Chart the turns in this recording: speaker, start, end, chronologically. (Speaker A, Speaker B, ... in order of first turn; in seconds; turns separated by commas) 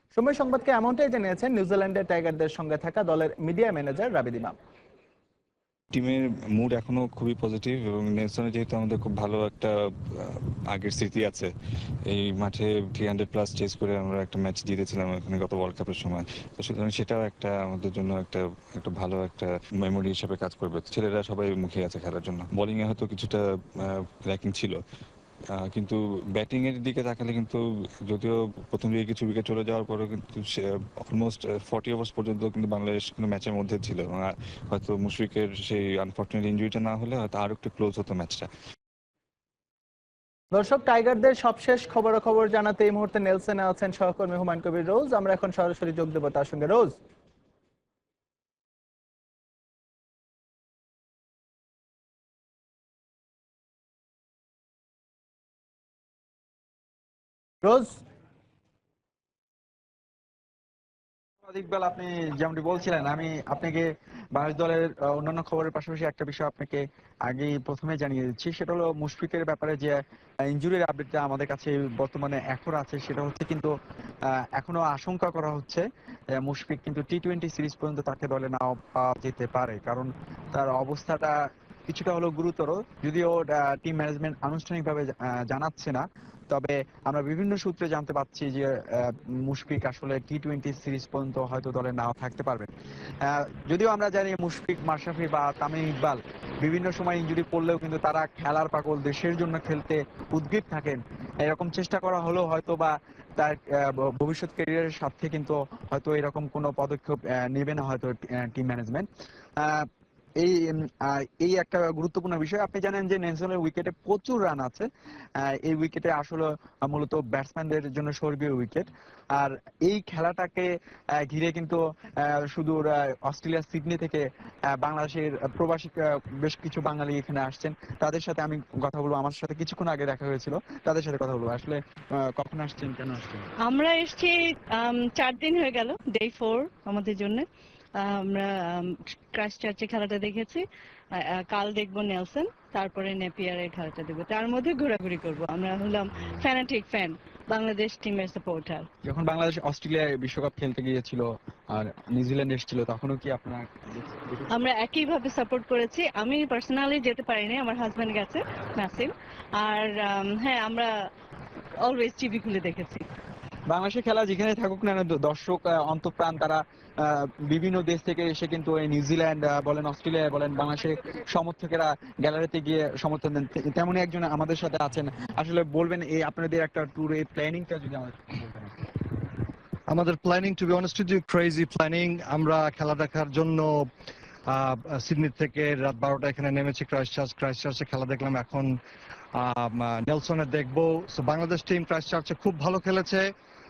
Speaker A: 0.1-4.5, Speaker B: 5.9-11.5, Speaker B: 12.1-24.8, Speaker B: 25.5-38.5, Speaker A: 40.5-47.0, Speaker A: 57.6-58.0, Speaker C: 61.5-73.7, Speaker C: 74.5-75.8, Speaker C: 76.4-81.3, Speaker C: 81.9-92.7, Speaker C: 93.2-109.1, Speaker C: 109.6-109.9, Speaker C: 110.4-114.9, Speaker C: 115.4-120.7, Speaker C: 121.2-133.5, Speaker D: 133.7-137.4, Speaker D: 138.0-140.6, Speaker D: 141.2-148.9, Speaker C: 149.0-154.5, Speaker D: 154.5-160.9, Speaker D: 161.8-163.0, Speaker C: 163.7-178.7, Speaker E: 179.9-183.9, Speaker E: 184.5-188.8, Speaker E: 189.3-193.3